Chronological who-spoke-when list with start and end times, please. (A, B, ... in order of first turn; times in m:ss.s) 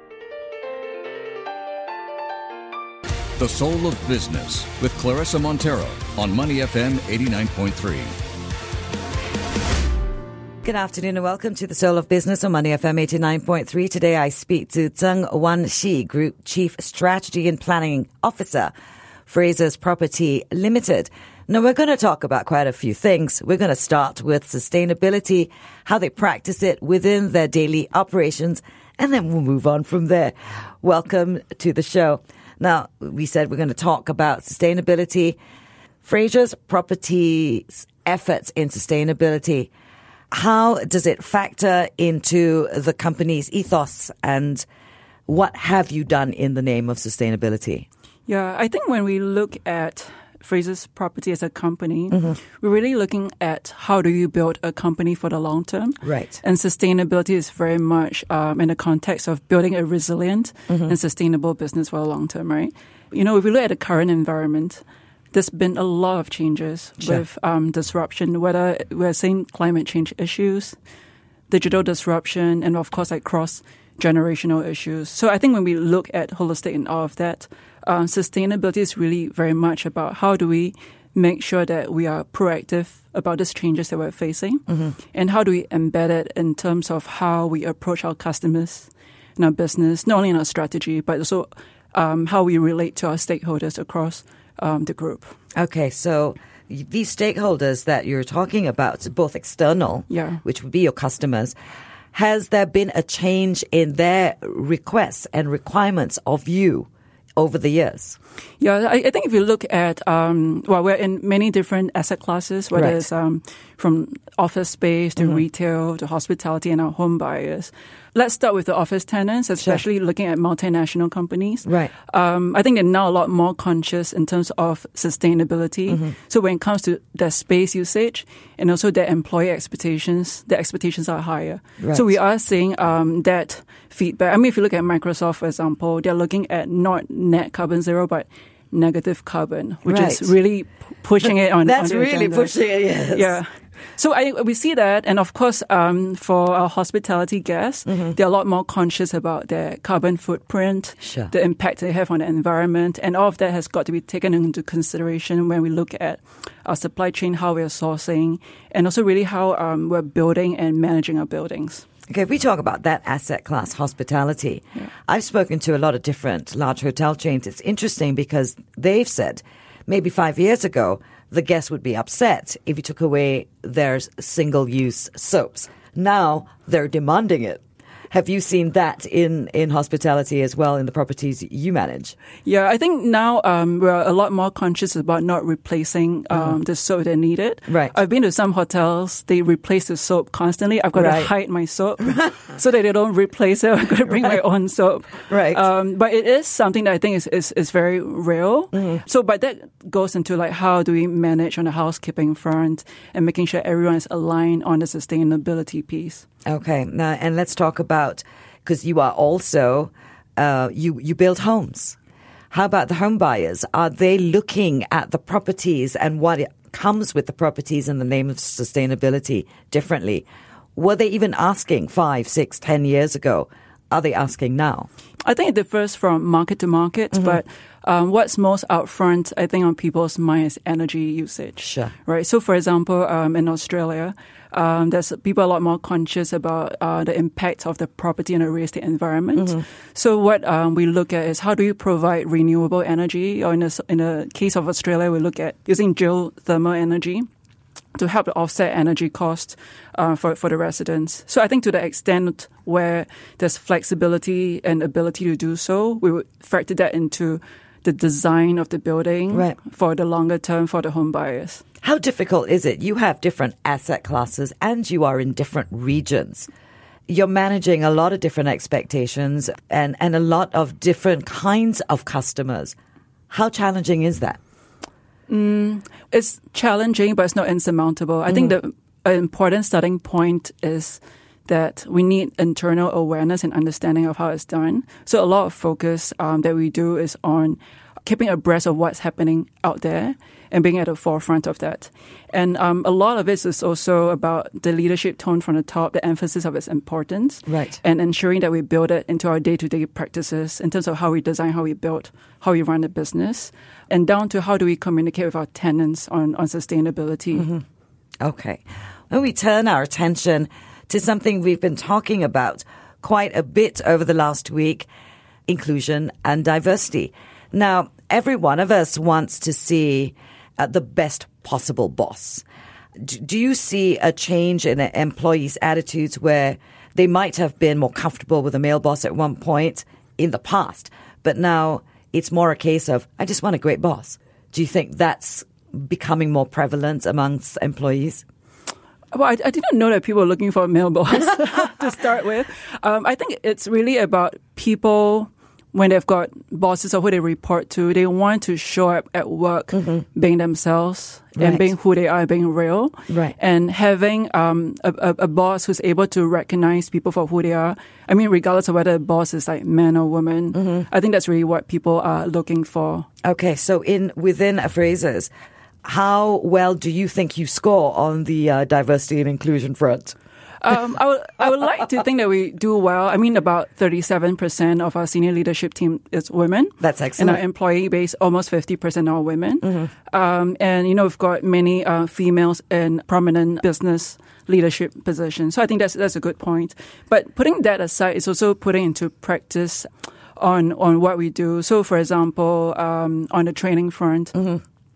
0:03.4-0:08.1 A
0:10.6-0:18.7 B
0:19.3-0:35.4 B
0:36.0-0:39.7 B
0:40.3-0:44.6 B
0:45.3-0:47.8 B
0:48.3-1:10.8 C
0:56.0-0:56.4 B
1:11.5-1:35.3 C
1:35.6-1:41.5 B
1:40.1-1:40.4 C
1:42.1-1:48.2 B
1:48.6-2:41.8 C
1:52.7-1:53.0 B
2:01.6-2:01.9 B
2:11.8-2:12.1 B
2:19.8-2:20.3 B
2:21.6-2:23.4 B
2:31.0-2:31.3 B
2:42.1-3:02.1 B
3:02.4-3:26.2 C
3:07.7-3:07.9 B
3:10.9-3:11.3 B
3:15.3-3:15.6 B
3:18.7-3:19.0 B
3:26.4-3:32.0 B
3:32.5-3:44.9 B
3:45.2-4:07.3 C
3:51.6-3:51.9 B
4:07.9-4:21.6 C
4:21.8-4:26.5 B
4:27.1-4:32.8 B
4:33.3-4:34.4 B
4:35.3-5:07.5 C
4:57.5-4:57.8 B
5:07.3-5:07.6 B
5:08.2-5:14.9 B
5:15.5-5:22.4 B
5:23.0-5:38.2 B
5:39.1-6:03.1 C
5:51.4-5:51.7 B
5:53.1-5:53.3 B
6:03.2-6:05.3 B
6:05.8-6:10.1 B
6:10.6-6:34.6 C
6:16.8-6:17.4 B